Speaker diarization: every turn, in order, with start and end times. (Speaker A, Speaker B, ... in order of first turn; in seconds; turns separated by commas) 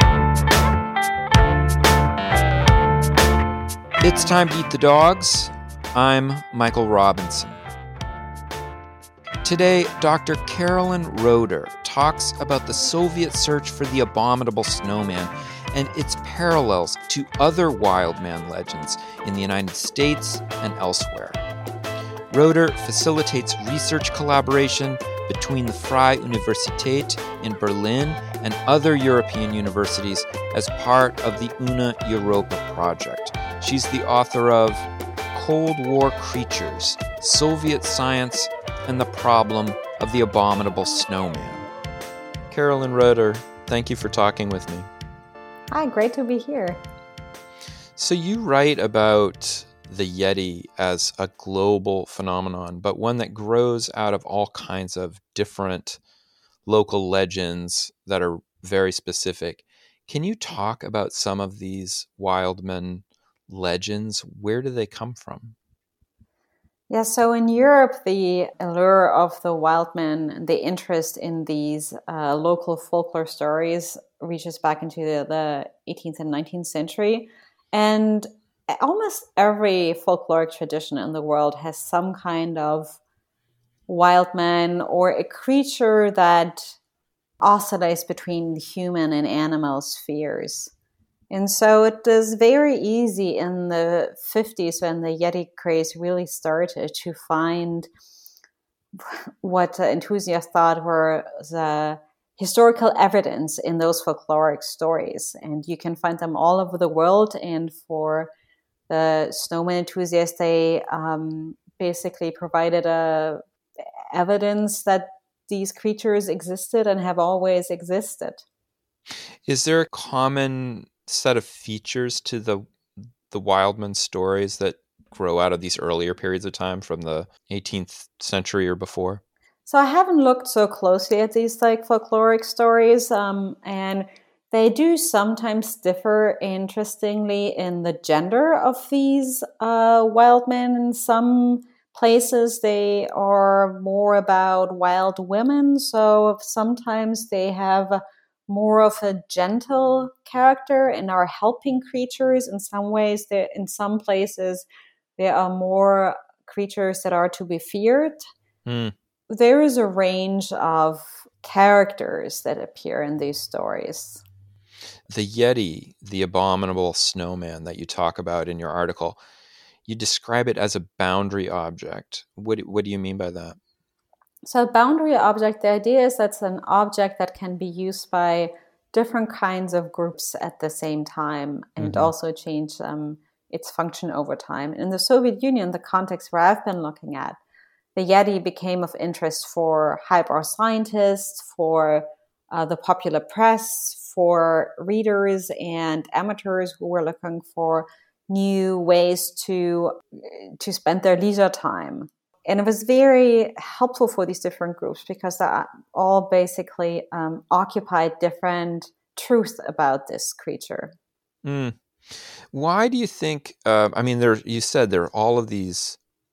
Speaker A: 4.0-7.6, Speaker A: 9.4-21.4, Speaker A: 22.3-41.7, Speaker A: 42.5-44.9, Speaker B: 45.7-46.8, Speaker A: 48.0-56.0, Speaker A: 56.7-65.6, Speaker B: 66.9-83.0, Speaker B: 83.9-86.8, Speaker B: 87.4-90.7, Speaker B: 91.3-97.9, Speaker B: 99.0-108.3, Speaker B: 108.9-113.4, Speaker B: 114.1-118.5, Speaker A: 119.5-122.7, Speaker A: 123.3-129.2, Speaker B: 129.7-154.7, Speaker B: 155.2-158.2, Speaker A: 158.7-158.9, Speaker B: 159.3-164.2, Speaker A: 165.1-169.2, Speaker A: 169.9-173.6, Speaker B: 174.4-187.4, Speaker A: 181.8-182.1, Speaker B: 188.0-210.9, Speaker A: 211.4-216.0